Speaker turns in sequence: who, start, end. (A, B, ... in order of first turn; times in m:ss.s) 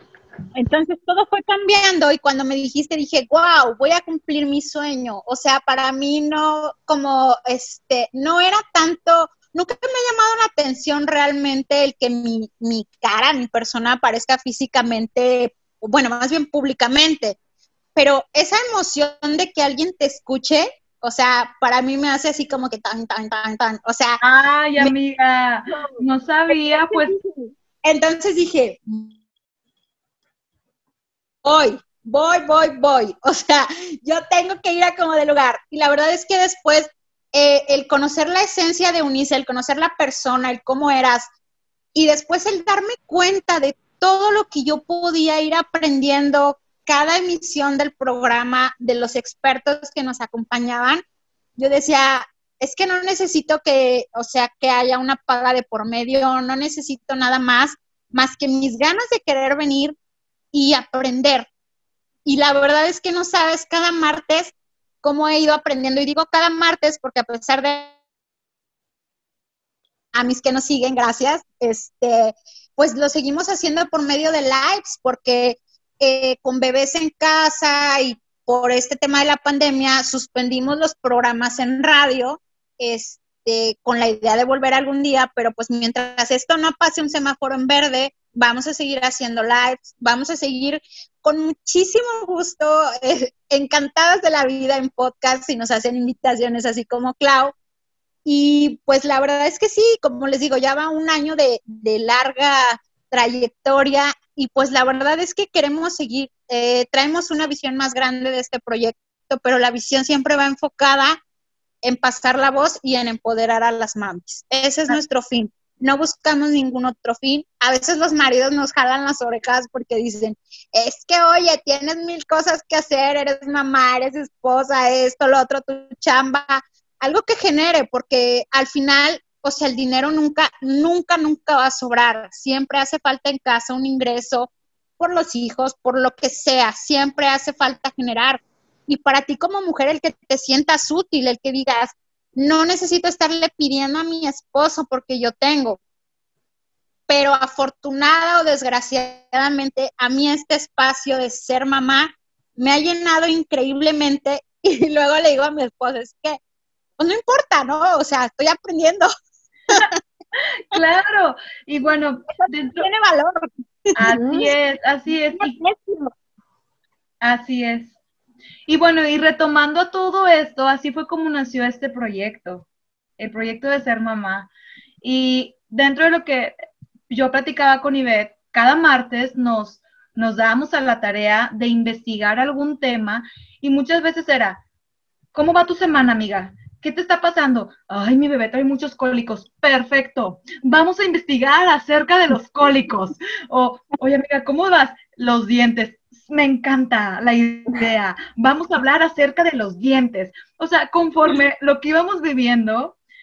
0:00.6-0:17.4 A
0:18.0-0:24.2 A
0:24.2-0:27.2 B
0:25.7-0:29.1 A
0:31.4-0:41.3 A
0:41.9-0:51.0 A
0:51.6-1:00.0 A
1:00.5-1:01.5 A
1:02.2-1:07.9 A
1:10.1-1:37.5 A
1:38.2-1:51.2 A
1:51.8-2:25.8 A
2:27.1-2:36.4 A
2:37.0-2:39.1 A
2:39.7-2:40.0 A
2:40.7-2:42.9 B
2:42.4-2:44.5 A
2:44.0-2:45.6 B
2:45.4-2:46.1 A
2:47.2-2:47.9 B
2:48.7-2:52.6 B
2:53.2-2:54.5 B
2:55.0-2:56.6 B
2:57.1-3:04.6 B
3:05.3-3:23.0 B